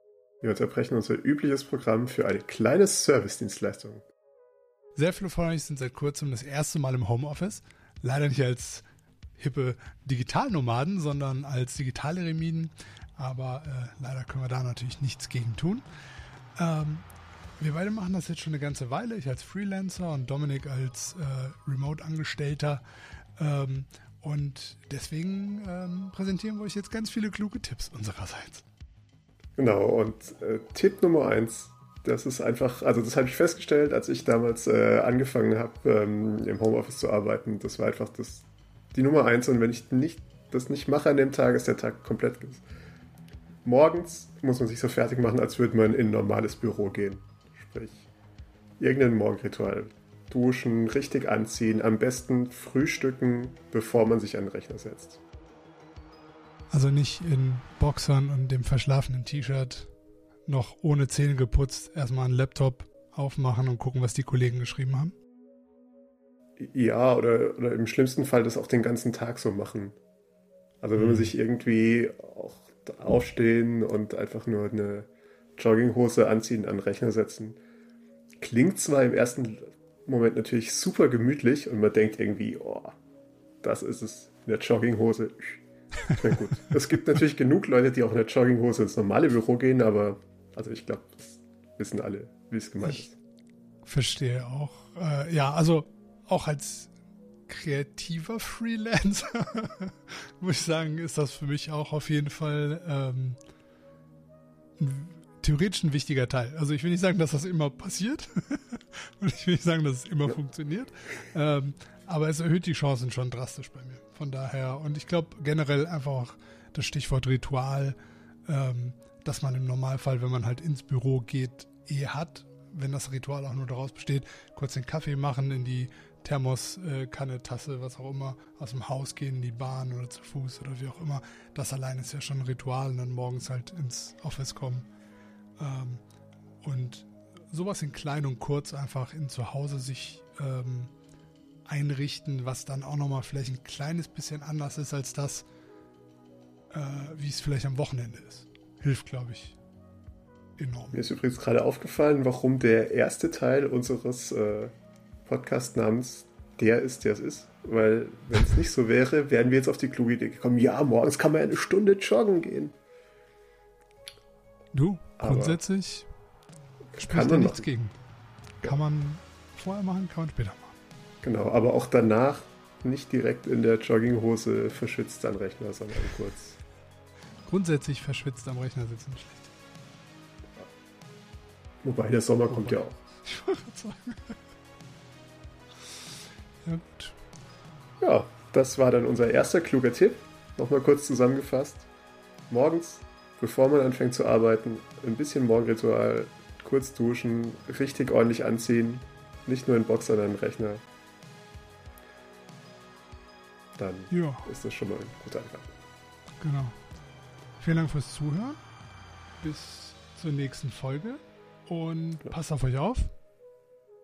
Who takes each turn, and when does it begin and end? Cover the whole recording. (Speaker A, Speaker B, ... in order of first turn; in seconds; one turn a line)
Speaker A: 0.4-4.0
Speaker B: 5.0-8.8
Speaker B: 9.4-15.8
Speaker B: 16.6-17.1
Speaker B: 17.6-22.8
Speaker B: 23.4-28.6
Speaker A: 29.6-42.6
Speaker A: 43.6-48.1
Speaker A: 48.8-55.2
Speaker B: 56.7-59.9
Speaker B: 60.5-65.1
Speaker A: 66.6-70.0
Speaker A: 70.8-77.6
Speaker B: 71.0-71.3
Speaker A: 78.4-83.0
Speaker A: 83.6-85.6
Speaker A: 86.1-93.2
Speaker B: 93.9-96.9
Speaker B: 97.5-103.4
Speaker B: 104.8-134.9
Speaker B: 135.6-136.0
Speaker B: 136.6-140.9
Speaker B: 141.7-145.5
Speaker B: 146.7-149.6
Speaker B: 150.6-151.0
Speaker A: 150.9-154.7
Speaker A: 155.3-162.8
Speaker B: 164.7-166.1
Speaker A: 165.2-165.6
Speaker A: 166.9-167.7
Speaker B: 167.0-168.0
Speaker B: 168.6-170.8
Speaker A: 171.2-176.6
Speaker B: 177.5-179.5
Speaker A: 181.8-183.0
Speaker B: 182.5-184.3
Speaker B: 186.6-187.2
Speaker A: 188.0-191.9
Speaker A: 192.5-200.8
Speaker A: 203.8-205.7
Speaker B: 204.1-204.5
Speaker B: 206.4-206.8
Speaker B: 207.6-208.6
Speaker B: 209.4-213.1